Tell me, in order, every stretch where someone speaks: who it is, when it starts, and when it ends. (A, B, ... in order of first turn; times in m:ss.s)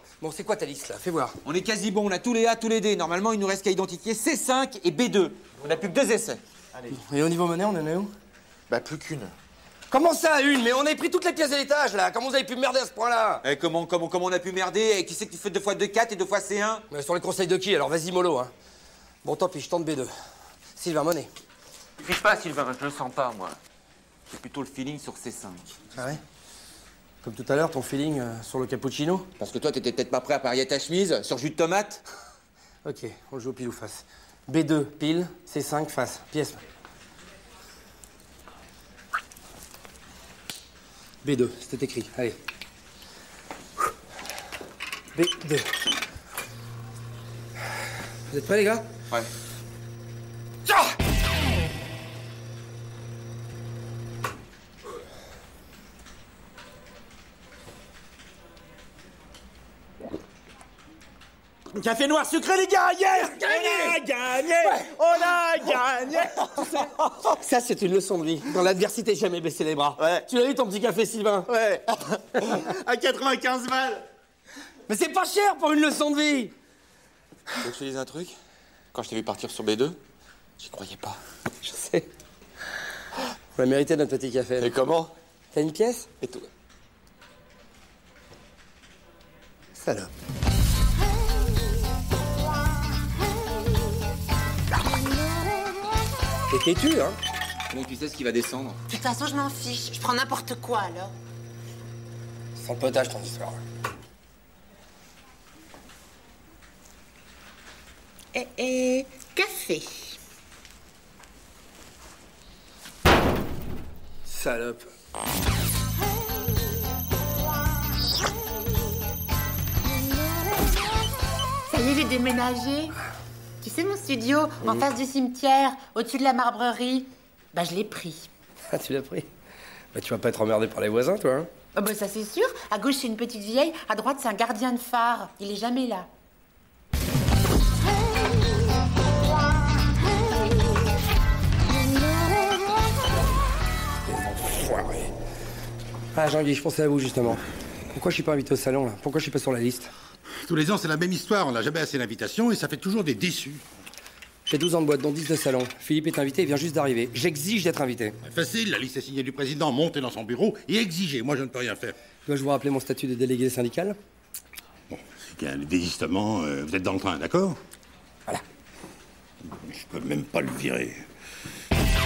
0:00.2-0:01.4 A
0:01.4-0:06.4 B
0:06.9-0:08.1 A
0:08.7-0:09.3 C
0:09.9-0:13.4 A
0:13.4-0:16.8 B
0:16.9-0:18.5 A
0:19.2-0:20.1 A
0:20.7-0:21.3 A
0:22.0-0:23.6 B
0:24.3-0:25.8 B
0:25.9-0:26.2 A
0:27.2-0:29.3 A
0:29.4-0:32.0 B
0:32.8-0:36.6 A
0:41.2-0:42.4 A
0:45.2-0:45.7 A
0:48.3-0:48.9 A
0:50.7-0:50.9 A
1:01.7-1:04.9 A
1:03.4-1:06.5 C
1:06.3-1:11.5 A
1:10.0-1:10.2 C
1:11.5-1:14.0 C
1:14.9-1:16.5 A
1:17.6-1:18.4 B
1:18.9-1:20.0 B
1:20.6-1:21.2 B
1:21.6-1:22.1 A
1:23.6-1:24.7 A
1:24.6-1:25.1 B
1:25.5-1:26.3 A
1:29.8-1:30.1 A
1:36.5-1:37.2 A
1:37.7-1:38.8 B
1:38.9-1:41.2 D
1:42.6-1:43.6 A
1:48.3-1:50.2 D
1:54.3-1:54.9 A
2:01.6-2:03.0 D
2:03.6-2:08.3 D
2:08.7-2:09.3 A
2:09.9-2:11.5 A
2:11.7-2:16.1 D
2:24.1-2:25.1 A
2:26.1-2:29.9 A
2:30.4-2:33.6 E
2:34.5-2:38.2 A
2:38.3-2:42.0 E
2:42.3-2:44.0 A
2:44.9-2:47.6 E
2:49.6-2:51.0 E